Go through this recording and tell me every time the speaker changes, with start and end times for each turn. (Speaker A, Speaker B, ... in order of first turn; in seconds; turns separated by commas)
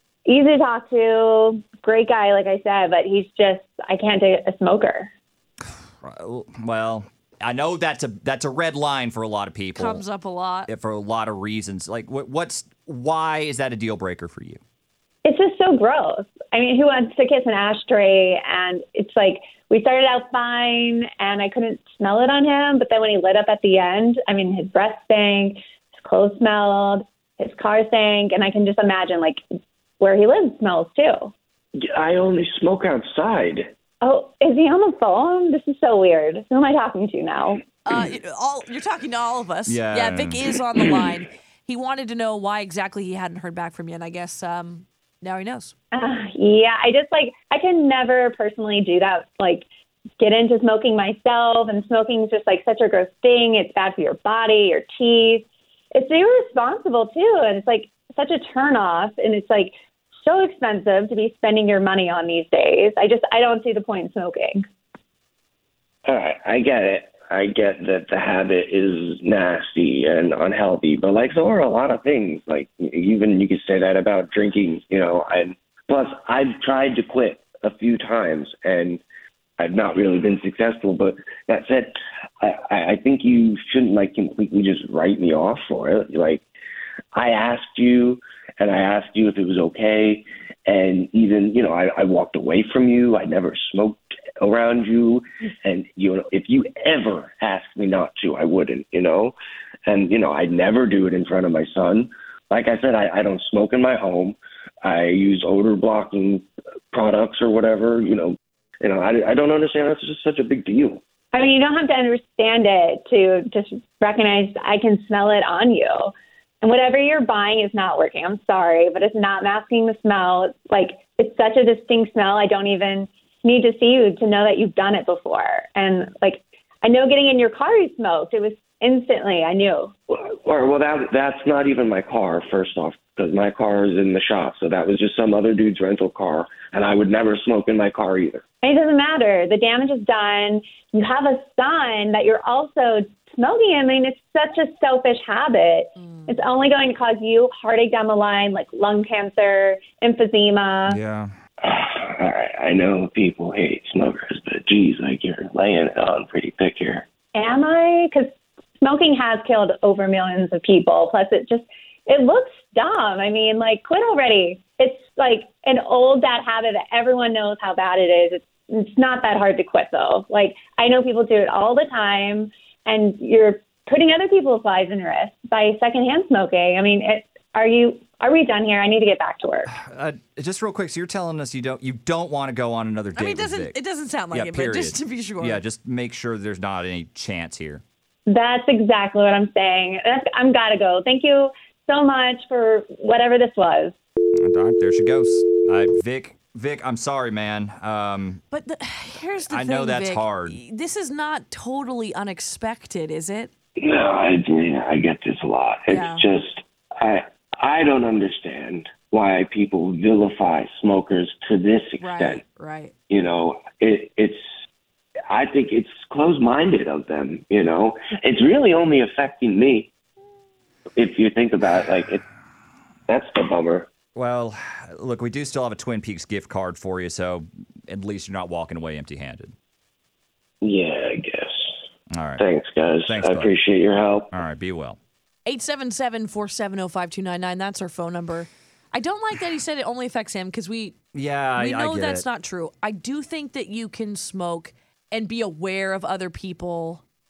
Speaker A: 0.3-5.1, Speaker B: 6.0-10.0, Speaker C: 9.8-10.7, Speaker B: 10.7-14.6, Speaker A: 15.2-29.4, Speaker A: 30.0-31.3, Speaker D: 31.8-33.7, Speaker A: 34.0-37.6, Speaker C: 37.9-45.7, Speaker B: 39.7-40.5, Speaker A: 45.9-49.7, Speaker A: 50.2-59.7, Speaker A: 60.2-64.6, Speaker D: 66.1-79.0, Speaker D: 79.6-86.4, Speaker D: 87.2-99.4, Speaker D: 99.9-111.0, Speaker A: 111.3-129.9, Speaker D: 130.1-138.4, Speaker A: 138.6-151.0, Speaker C: 146.0-146.3, Speaker B: 150.9-151.3, Speaker D: 151.6-157.1, Speaker A: 157.3-179.7, Speaker B: 179.7-183.8, Speaker C: 183.2-185.6, Speaker B: 184.3-187.8, Speaker A: 188.3-193.9, Speaker B: 194.4-198.4, Speaker C: 198.5-203.5, Speaker B: 199.5-200.6, Speaker D: 203.8-212.4, Speaker C: 205.9-206.2, Speaker C: 212.0-212.9, Speaker D: 213.1-214.4, Speaker D: 215.3-219.9, Speaker D: 221.0-222.2, Speaker D: 223.1-223.9, Speaker B: 224.2-229.5, Speaker D: 230.6-231.7, Speaker B: 232.1-232.4, Speaker D: 232.4-234.3, Speaker B: 233.1-233.5, Speaker B: 234.3-235.0, Speaker C: 235.5-241.0, Speaker B: 241.1-242.2, Speaker C: 241.6-247.0